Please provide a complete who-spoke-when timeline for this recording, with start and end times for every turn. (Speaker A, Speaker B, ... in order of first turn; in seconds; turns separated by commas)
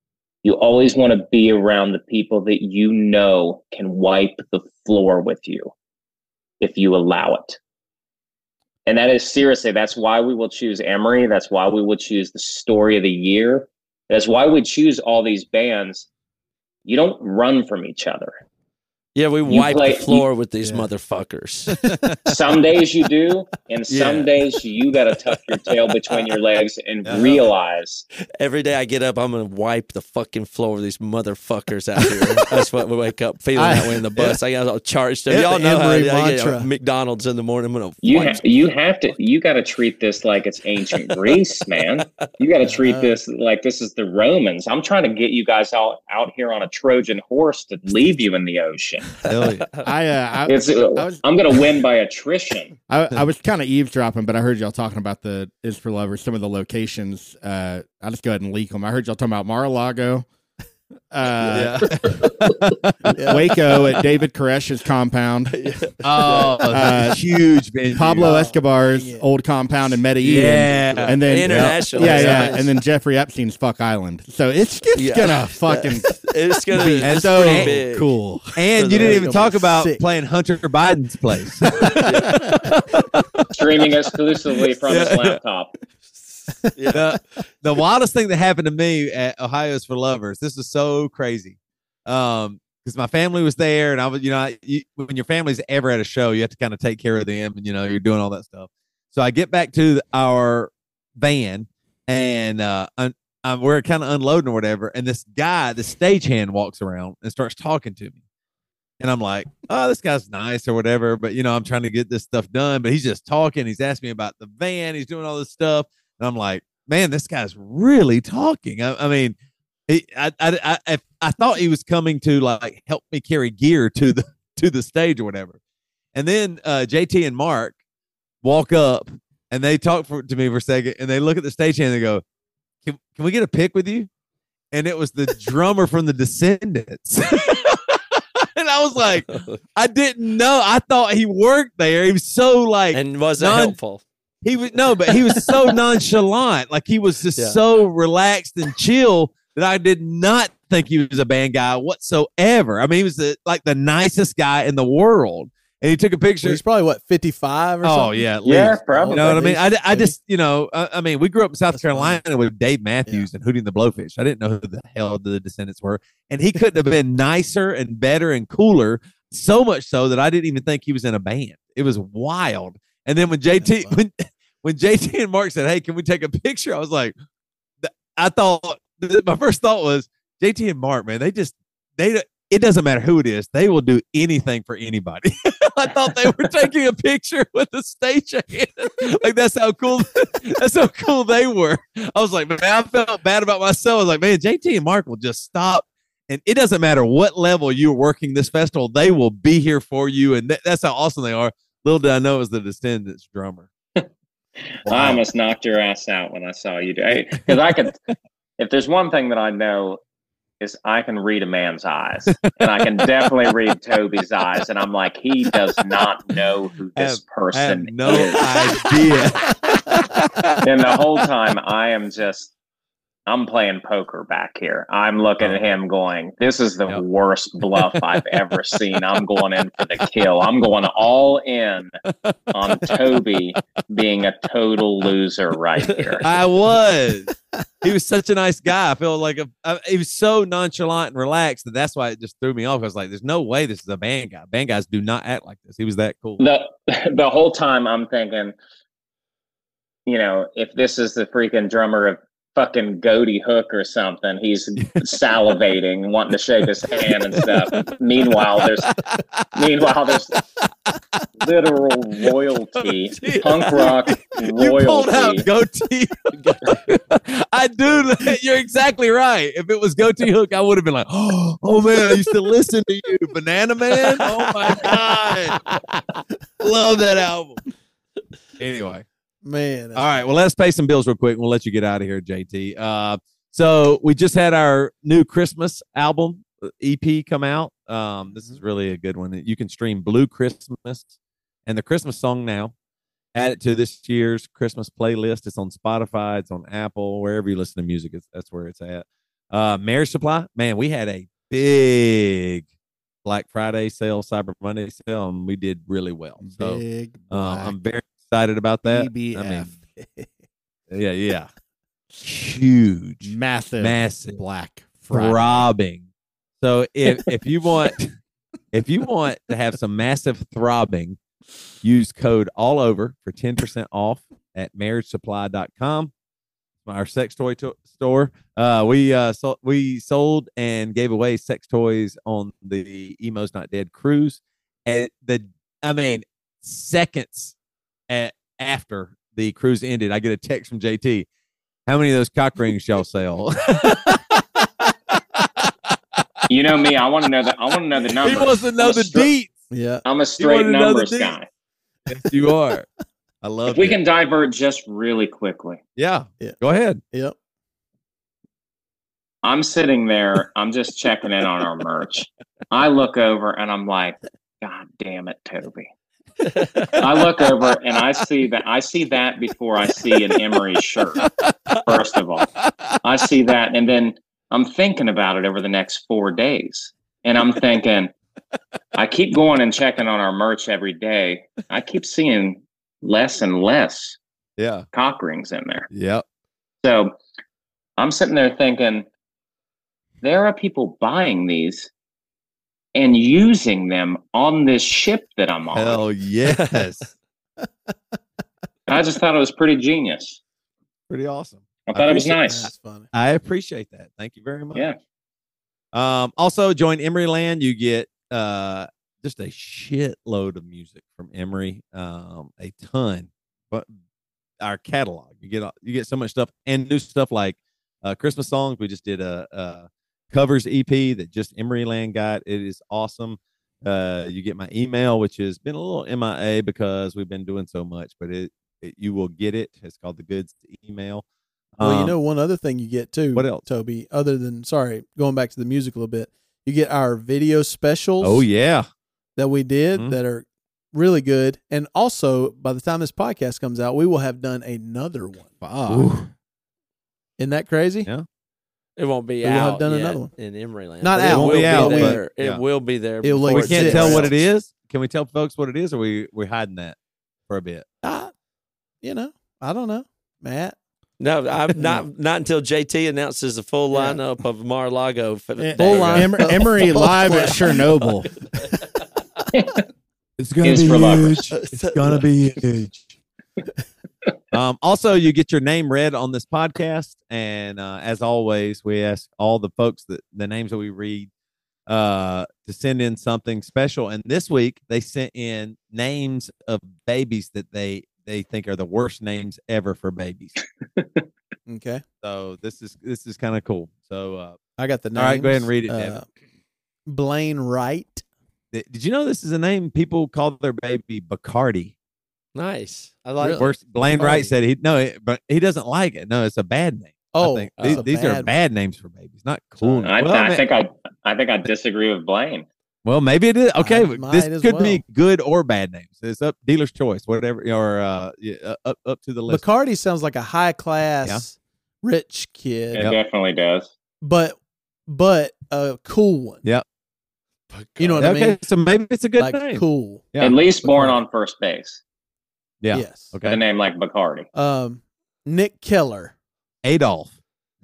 Speaker A: 0.4-5.7, Speaker A: 6.6-7.6, Speaker A: 8.8-16.1, Speaker A: 16.8-18.3, Speaker B: 19.1-21.9, Speaker A: 19.5-20.2, Speaker C: 21.8-22.1, Speaker A: 22.2-28.0, Speaker B: 23.9-24.3, Speaker B: 28.4-38.6, Speaker D: 32.1-32.6, Speaker D: 33.6-34.4, Speaker D: 35.3-36.7, Speaker A: 38.0-49.2, Speaker B: 41.0-41.4, Speaker D: 42.6-43.2, Speaker C: 49.2-49.7, Speaker B: 49.4-49.8, Speaker E: 49.8-51.2, Speaker A: 50.5-52.7, Speaker E: 52.9-60.3, Speaker E: 61.1-62.1, Speaker C: 61.5-63.3, Speaker D: 63.1-63.5, Speaker E: 63.2-65.6, Speaker B: 65.5-66.7, Speaker C: 66.0-68.3, Speaker E: 66.7-67.2, Speaker E: 67.9-79.1, Speaker D: 68.2-69.2, Speaker C: 70.2-72.5, Speaker B: 70.8-72.7, Speaker B: 75.0-78.1, Speaker C: 77.0-77.8, Speaker C: 78.5-83.5, Speaker B: 78.8-79.3, Speaker D: 78.9-80.0, Speaker B: 82.0-82.4, Speaker A: 83.5-85.7, Speaker C: 84.9-85.3, Speaker D: 86.6-87.0, Speaker B: 86.7-87.0, Speaker C: 86.9-108.2, Speaker C: 109.0-119.3, Speaker C: 119.9-125.6, Speaker C: 126.1-127.8, Speaker C: 128.4-132.2, Speaker C: 132.8-134.1, Speaker C: 134.7-143.8, Speaker B: 139.3-139.6, Speaker B: 142.9-144.0, Speaker C: 144.4-156.6, Speaker D: 156.4-160.1, Speaker C: 157.8-177.1, Speaker A: 158.4-159.4, Speaker D: 161.7-162.2, Speaker D: 173.5-174.0, Speaker C: 177.8-203.7, Speaker C: 204.8-205.2, Speaker A: 204.9-208.0, Speaker A: 208.6-210.0, Speaker A: 210.6-218.5, Speaker C: 212.3-213.0, Speaker C: 216.9-220.9, Speaker A: 220.6-222.5, Speaker A: 223.3-232.0, Speaker C: 232.0-233.8, Speaker A: 232.5-236.3, Speaker B: 235.8-236.2, Speaker C: 236.2-237.3, Speaker C: 237.8-246.4, Speaker A: 246.4-248.6, Speaker A: 250.1-258.9, Speaker C: 254.8-255.1, Speaker C: 257.3-259.7, Speaker A: 259.5-260.3, Speaker A: 261.4-265.5, Speaker C: 263.1-275.6, Speaker B: 274.0-274.2, Speaker B: 275.7-276.0, Speaker C: 276.6-277.6, Speaker C: 278.6-279.0, Speaker D: 279.4-280.1, Speaker C: 279.9-291.1, Speaker C: 291.6-292.7, Speaker C: 293.3-302.6, Speaker C: 303.2-309.8, Speaker E: 306.4-307.7, Speaker E: 308.8-309.7, Speaker D: 310.0-310.3, Speaker C: 310.9-311.5, Speaker C: 312.2-314.4, Speaker E: 313.2-315.4, Speaker C: 315.1-316.1, Speaker C: 316.6-318.2, Speaker C: 318.7-321.2, Speaker C: 321.8-326.1, Speaker C: 326.8-337.5, Speaker C: 338.1-341.2, Speaker C: 341.9-344.9, Speaker C: 345.4-345.7, Speaker A: 346.5-349.3, Speaker C: 348.2-349.6, Speaker D: 349.7-350.0, Speaker A: 350.0-351.4, Speaker C: 350.4-351.4, Speaker C: 352.1-352.9, Speaker C: 353.4-354.0, Speaker A: 353.7-355.8, Speaker C: 355.9-357.0, Speaker A: 359.4-365.9, Speaker B: 366.5-367.0, Speaker A: 367.0-371.3, Speaker A: 371.9-372.5, Speaker C: 372.6-372.9, Speaker A: 373.0-378.1, Speaker A: 378.9-384.2, Speaker C: 384.6-384.9, Speaker A: 384.9-385.9, Speaker C: 385.9-386.2, Speaker A: 386.8-387.1, Speaker A: 388.0-389.1, Speaker A: 390.2-391.9, Speaker A: 392.9-396.0, Speaker C: 395.7-397.1, Speaker B: 396.4-396.9, Speaker A: 398.9-400.4, Speaker C: 401.1-402.4, Speaker A: 401.9-402.7, Speaker D: 402.4-403.1, Speaker C: 403.1-404.9, Speaker C: 405.9-413.9, Speaker C: 414.6-431.2, Speaker C: 431.8-432.1, Speaker D: 431.8-438.5, Speaker C: 433.3-433.6, Speaker C: 438.2-438.9, Speaker D: 439.4-445.5, Speaker E: 445.6-446.1, Speaker C: 445.9-446.3, Speaker D: 447.4-448.1, Speaker B: 449.0-454.5, Speaker D: 449.4-450.3, Speaker D: 451.0-452.2, Speaker C: 451.2-452.6, Speaker D: 453.2-454.3, Speaker C: 453.5-456.9, Speaker C: 457.5-457.9, Speaker D: 458.0-458.3, Speaker D: 459.0-460.8, Speaker B: 461.2-467.8, Speaker E: 465.6-468.4, Speaker D: 465.8-467.6, Speaker A: 469.5-469.8, Speaker C: 470.4-473.2, Speaker A: 470.6-471.4, Speaker B: 471.5-472.2, Speaker C: 474.5-481.3, Speaker C: 481.9-490.5, Speaker A: 491.0-491.2, Speaker D: 491.7-492.0, Speaker C: 492.2-494.6, Speaker D: 494.8-496.2, Speaker C: 495.1-496.2, Speaker D: 497.1-498.2, Speaker C: 498.7-501.9, Speaker B: 502.5-503.7, Speaker C: 503.2-510.6, Speaker D: 503.4-504.5, Speaker D: 507.3-508.5, Speaker B: 507.8-508.0, Speaker D: 509.8-510.1, Speaker A: 510.0-512.7, Speaker C: 513.0-519.6, Speaker D: 513.8-515.0, Speaker D: 519.5-523.1, Speaker A: 522.9-523.9, Speaker D: 524.2-526.6, Speaker B: 527.7-528.2, Speaker D: 528.0-528.6, Speaker C: 528.2-530.6, Speaker D: 529.4-530.2, Speaker A: 530.4-532.0, Speaker C: 532.8-533.6, Speaker D: 532.9-533.3, Speaker A: 533.4-534.5, Speaker D: 534.5-536.3, Speaker C: 536.8-537.3